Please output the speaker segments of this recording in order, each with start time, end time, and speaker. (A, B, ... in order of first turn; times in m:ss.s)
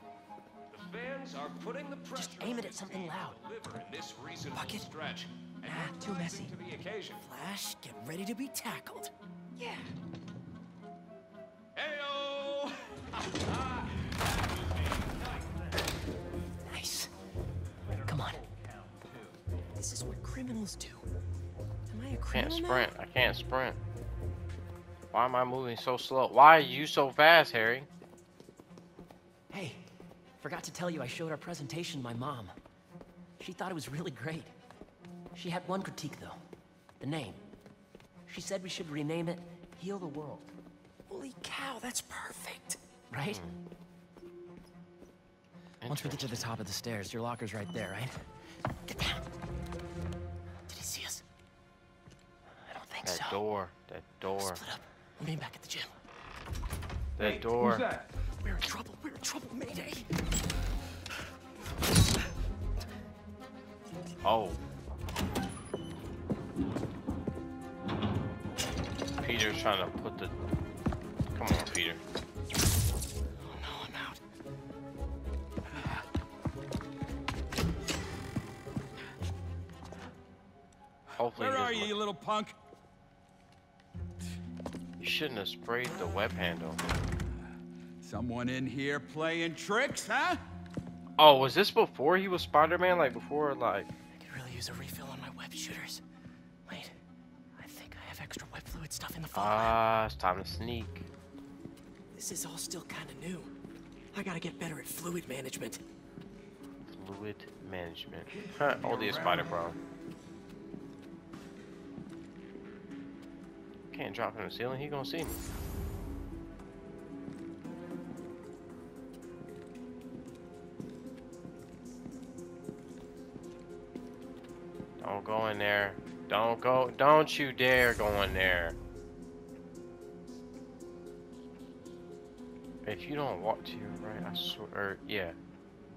0:00.7-0:07.2 A
0:02.2-0:03.3 B
0:05.7-0:06.5 C
0:07.2-0:09.1 C
0:11.8-0:15.8 A
0:16.7-0:17.1 B
0:17.9-0:19.4 A
0:18.1-0:18.4 B
0:19.8-0:21.0 C
0:21.9-0:22.9 C
0:22.3-0:23.8 D
0:25.1-0:27.9 D
0:29.5-0:29.8 B
0:30.4-0:32.6 B
0:33.4-0:34.5 B
0:35.4-0:36.4 B
0:37.0-0:37.4 B
0:38.3-0:40.5 B
0:41.1-0:42.8 C
0:43.1-0:43.4 B
0:45.8-0:46.4 D
0:45.9-0:48.2 B
0:50.7-0:51.2 C
0:52.7-0:53.4 B
0:53.0-0:54.6 D
0:55.2-0:55.9 C
0:57.2-0:57.8 D
0:57.2-0:58.1 E
0:58.4-1:00.1 C
1:04.2-1:04.6 D
1:09.2-1:10.3 D
1:11.4-1:12.0 D
1:13.4-1:14.2 C
1:21.2-1:21.9 D
1:21.4-1:22.6 E
1:25.0-1:26.8 D
1:28.0-1:30.4 E
1:31.2-1:33.9 D
1:34.2-1:36.0 C
1:36.7-1:37.0 C
1:37.6-1:39.8 C
1:39.4-1:41.1 D
1:42.1-1:43.5 C
1:44.1-1:45.8 C
1:46.9-1:49.8 D
1:48.4-1:49.7 E
1:53.9-1:55.4 D
2:05.0-2:08.8 D
2:12.8-2:15.4 D